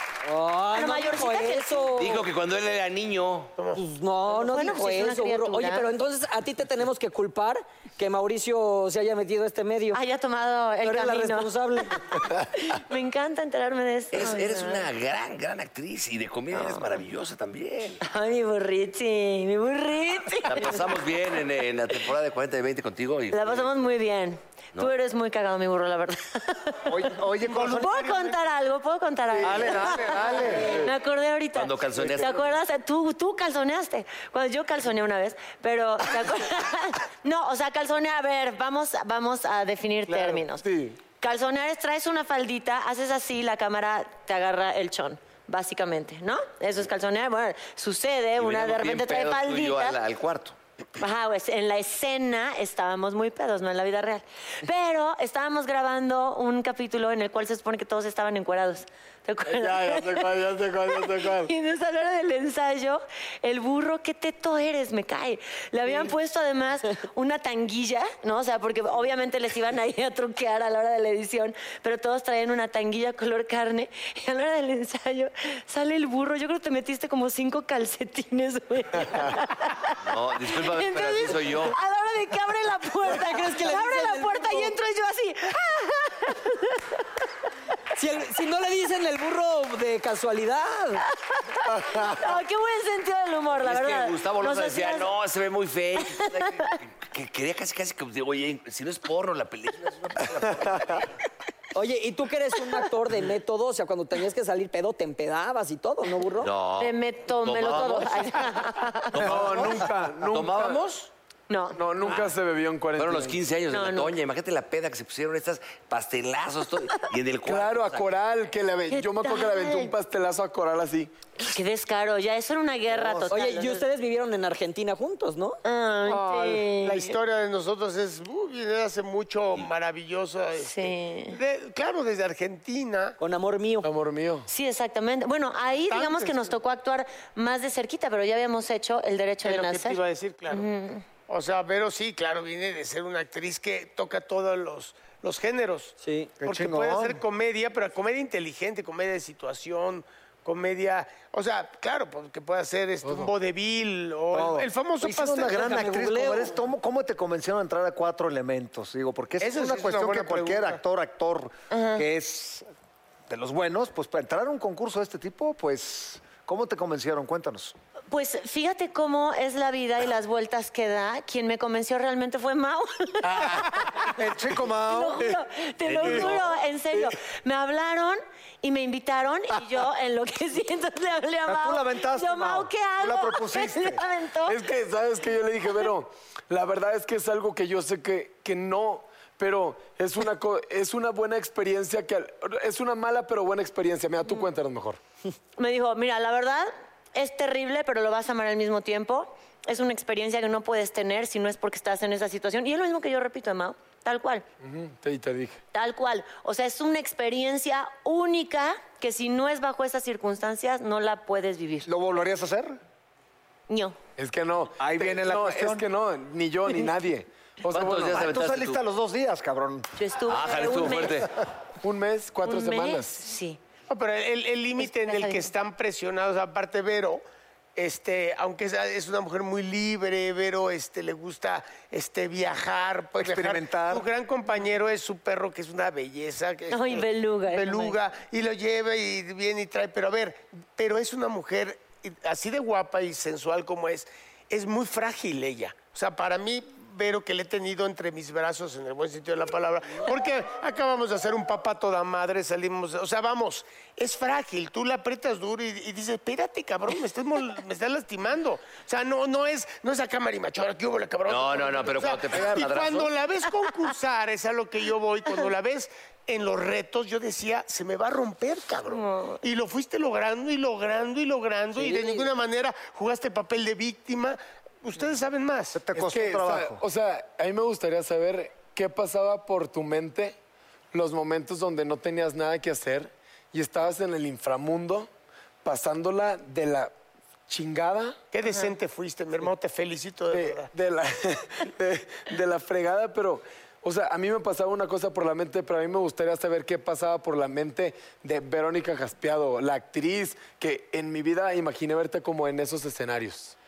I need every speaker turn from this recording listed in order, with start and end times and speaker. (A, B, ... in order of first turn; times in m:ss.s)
0:00.2-0:02.2 A
0:00.7-0:02.1 B
0:01.9-0:03.5 C
0:03.8-0:10.0 A
0:04.4-0:05.9 B
0:09.9-0:14.9 B
0:10.8-0:12.0 A
0:14.1-0:18.0 C
0:16.5-0:16.9 B
0:18.0-0:21.0 B
0:20.4-0:23.7 C
0:23.3-0:27.2 B
0:26.9-0:28.0 D
0:27.4-0:28.4 E
0:27.7-0:40.6 B
0:29.4-0:30.8 D
0:31.5-0:32.5 C
0:40.2-0:41.0 F
0:41.2-0:50.0 B
0:48.4-0:50.6 C
0:51.0-1:27.0 B
0:59.4-1:01.5 F
1:20.0-1:21.8 C
1:23.0-1:24.8 A
1:28.0-1:31.0 A
1:31.3-1:35.1 B
1:33.5-1:41.1 C
1:36.0-1:36.8 B
1:41.7-1:46.5 A
1:46.4-1:48.6 C
1:46.8-1:49.3 B
1:49.1-1:51.1 C
1:49.2-1:50.8 F
1:51.5-1:51.8 B
1:51.8-1:53.4 F
1:52.0-1:52.3 C
1:53.0-1:58.2 C
1:53.7-1:54.2 B
1:57.4-2:01.1 F
1:58.9-1:59.9 B
2:01.4-2:03.9 B
2:02.9-2:03.4 D
2:03.3-2:05.6 A
2:05.6-2:07.2 B
2:06.1-2:13.2 E
2:10.6-2:11.4 B
2:13.2-2:13.9 A
2:13.8-2:14.5 F
2:14.5-2:21.0 B
2:15.9-2:16.6 E
2:19.4-2:20.7 E
2:21.3-2:35.8 E
2:26.0-2:26.3 A
2:26.4-2:27.2 D
2:34.3-2:42.7 D
2:35.0-2:36.5 A
2:39.4-2:40.8 E
2:41.7-2:42.0 B
2:43.3-2:47.8 D
2:48.1-2:54.1 B
2:53.4-2:55.4 D
2:54.8-3:04.6 B
2:56.0-2:56.4 D
3:01.5-3:04.0 D
3:04.5-3:15.0 F
3:15.6-3:24.4 B
3:24.6-3:25.6 F
3:25.7-3:31.9 B
3:31.9-3:32.8 D
3:33.7-3:34.0 B
3:34.2-3:38.2 F
3:34.8-3:35.8 D
3:37.7-3:38.8 C
3:38.0-3:39.9 D
3:40.0-3:41.3 B
3:40.2-3:41.3 C
3:41.8-3:43.3 F
3:42.4-3:43.6 B
3:43.9-3:47.2 E
3:44.8-3:45.5 B
3:47.8-4:35.8 E
3:53.2-3:54.1 D
3:56.7-3:58.0 B
4:21.3-4:23.1 C
4:28.9-4:29.4 B
4:31.8-4:32.3 A
4:35.7-4:36.8 D
4:36.0-4:40.4 F
4:40.9-4:45.1 F
4:45.6-4:46.9 F
4:47.5-4:48.2 F
4:48.3-4:50.7 E
4:50.3-5:03.6 F